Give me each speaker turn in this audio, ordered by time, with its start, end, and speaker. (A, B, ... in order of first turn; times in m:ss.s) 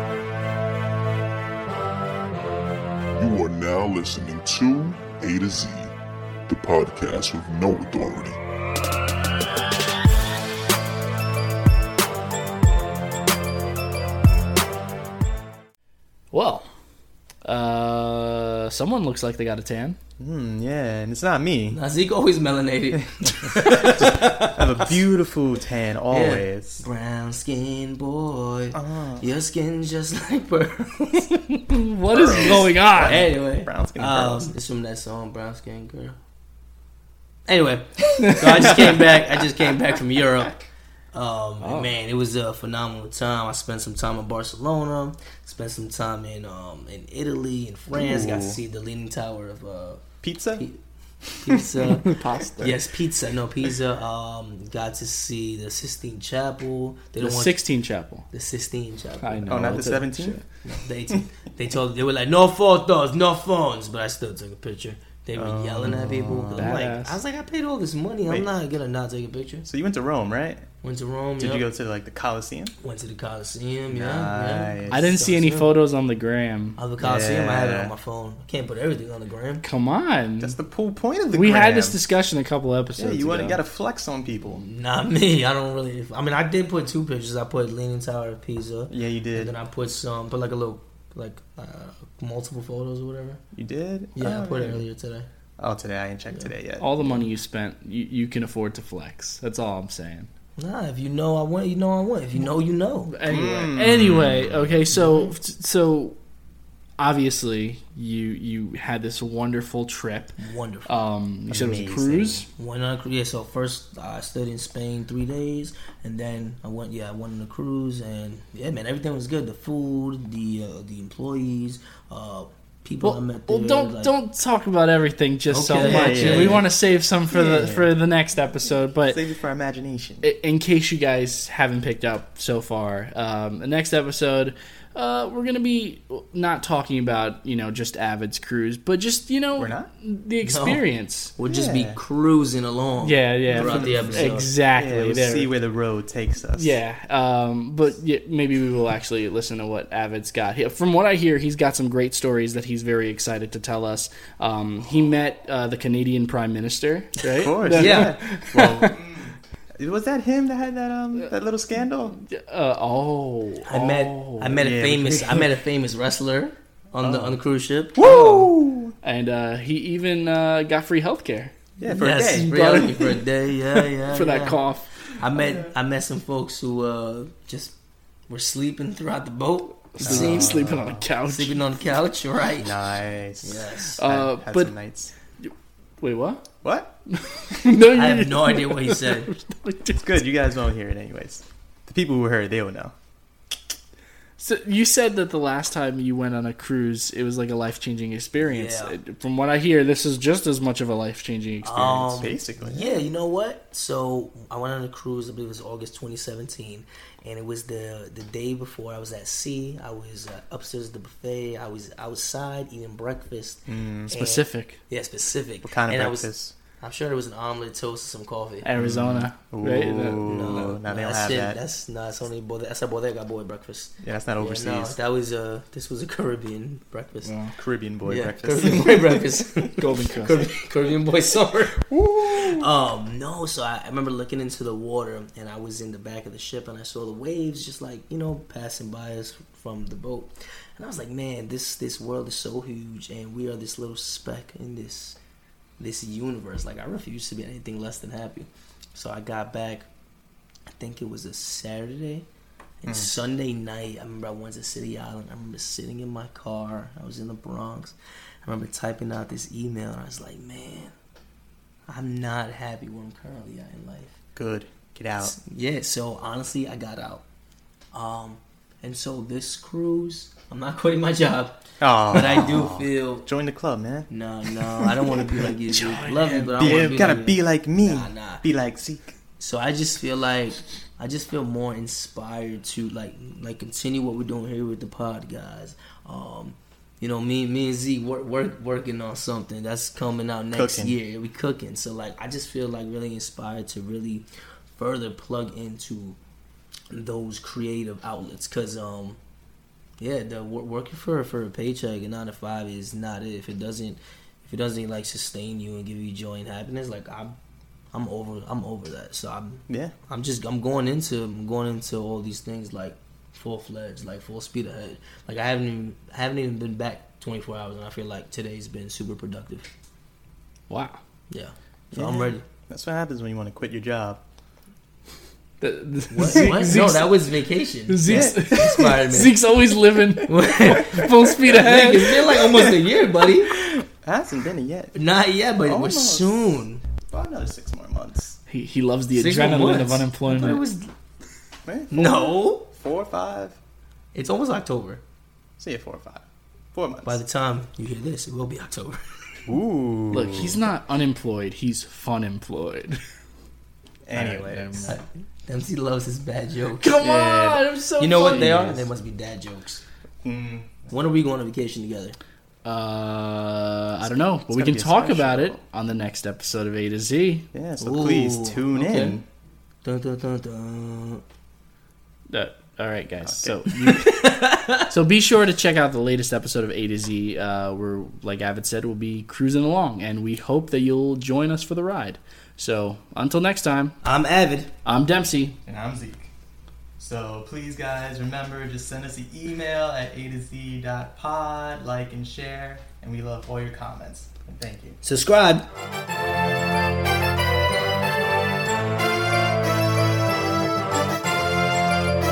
0:03.2-0:05.9 A
0:06.5-0:08.4 A
0:16.3-0:16.7 B
0:17.4-0:20.0 B
0:20.2-0:21.8 C
0:21.7-0:25.0 D
0:23.9-0:26.8 C
0:26.1-0:31.6 D
0:28.7-0:29.3 C
0:31.7-0:33.3 B
0:32.1-0:34.5 C
0:32.2-0:36.2 D
0:37.5-0:40.6 D
0:41.1-0:50.8 D
0:41.6-0:42.0 B
0:47.9-0:48.6 C
0:50.2-0:50.6 C
0:51.4-0:52.1 D
0:51.7-0:52.8 B
0:52.6-0:57.6 D
0:57.2-0:58.3 B
0:58.3-0:59.9 D
0:59.2-1:00.4 B
0:59.5-1:00.4 C
1:00.6-1:09.7 D
1:05.4-1:06.7 C
1:06.5-1:07.2 B
1:09.6-1:10.7 C
1:10.8-1:11.7 D
1:11.4-1:12.7 C
1:12.8-1:15.7 D
1:13.9-1:15.2 C
1:14.9-1:16.8 B
1:16.8-1:19.6 D
1:17.0-1:17.9 C
1:19.6-1:20.6 B
1:20.4-1:22.0 C
1:21.3-1:23.6 B
1:23.0-1:24.6 C
1:24.5-1:33.4 D
1:28.9-1:29.5 C
1:33.5-1:34.8 C
1:34.2-1:35.3 D
1:35.6-1:36.9 C
1:36.8-1:40.3 B
1:40.6-1:43.1 D
1:43.1-1:46.2 B
1:43.2-1:44.8 C
1:44.9-1:45.3 D
1:47.0-1:52.5 B
1:50.4-1:51.0 D
1:51.5-1:52.4 C
1:52.6-2:04.1 D
2:03.0-2:09.2 B
2:05.5-2:06.6 D
2:05.8-2:06.7 C
2:07.3-2:07.9 C
2:09.0-2:10.3 C
2:10.2-2:21.3 B
2:19.6-2:19.9 C
2:20.4-2:24.5 D
2:21.4-2:22.0 C
2:23.0-2:25.5 B
2:23.5-2:26.8 C
2:26.5-2:39.0 B
2:37.3-2:42.2 C
2:37.8-2:38.1 D
2:42.2-2:44.7 B
2:43.7-2:48.3 D
2:44.6-2:45.5 C
2:47.0-2:47.4 C
2:48.0-2:49.0 C
2:48.0-2:48.5 B
2:49.0-2:51.5 B
2:51.8-2:53.2 C
2:51.9-2:54.6 D
2:54.1-2:54.9 B
2:55.1-2:57.8 D
2:55.4-2:55.7 C
2:58.3-3:00.6 D
3:00.0-3:01.6 B
3:00.0-3:01.1 C
3:01.2-3:02.8 D
3:02.6-3:05.1 C
3:03.4-3:04.0 D
3:04.0-3:04.8 B
3:05.4-3:06.4 B
3:06.6-3:06.9 C
3:07.1-3:10.1 B
3:07.9-3:09.3 D
3:10.0-3:12.9 C
3:14.4-3:22.3 B
3:18.4-3:19.0 D
3:21.6-3:38.7 D
3:22.2-3:23.0 C
3:33.7-3:34.2 C
3:34.1-3:34.8 B
3:35.6-3:36.5 C
3:38.6-3:40.8 B
3:38.8-3:41.6 C
3:40.2-3:47.4 D
3:44.0-3:45.0 C
3:47.2-3:47.5 B
3:47.6-3:49.2 C
3:48.0-4:05.2 D
3:49.8-3:50.5 B
3:51.9-3:52.6 C
4:05.8-4:09.9 D
4:10.7-4:12.3 D
4:12.8-4:20.9 D
4:21.9-4:24.2 D
4:24.4-4:25.3 C
4:25.2-4:27.2 D
4:27.9-4:33.3 D
4:31.8-4:34.1 C
4:34.1-4:38.4 D
4:35.7-4:37.1 B
4:36.6-4:39.2 C
4:39.4-4:56.2 D
4:50.5-4:51.0 C
4:56.9-4:59.2 D
5:00.0-5:07.4 D
5:07.9-5:19.7 D
5:20.7-5:21.0 B
5:21.3-5:22.4 D
5:21.9-5:24.2 C
5:25.6-5:27.2 B
5:26.1-5:29.4 D
5:26.3-5:27.0 C
5:27.9-5:32.7 B
5:28.1-5:28.7 C
5:30.2-5:33.6 D
5:34.0-5:35.0 C
5:34.9-5:36.8 D
5:35.6-5:38.4 C
5:38.5-5:40.6 B
5:39.1-5:40.9 D
5:41.7-5:43.6 C
5:41.9-5:42.7 D
5:44.1-5:45.0 D
5:45.6-5:47.2 C
5:47.0-5:49.0 D
5:49.5-5:50.6 C
5:50.1-5:53.0 B
5:54.1-5:54.9 C
5:54.1-5:55.0 B
5:54.8-5:57.0 D
5:56.8-5:58.7 B
5:57.0-5:58.9 C
5:58.0-5:59.8 D
6:00.2-6:00.9 C
6:00.9-6:02.2 D
6:02.6-6:07.5 B
6:04.0-6:05.6 C
6:07.5-6:09.2 C
6:07.8-6:09.2 D
6:09.8-6:11.2 D
6:12.3-6:14.4 B
6:13.2-6:13.6 C
6:13.8-6:14.9 D
6:14.9-6:24.0 B
6:24.0-6:24.7 D
6:24.8-6:25.6 B
6:25.6-6:26.3 C
6:27.0-6:35.0 C
6:35.0-6:35.7 D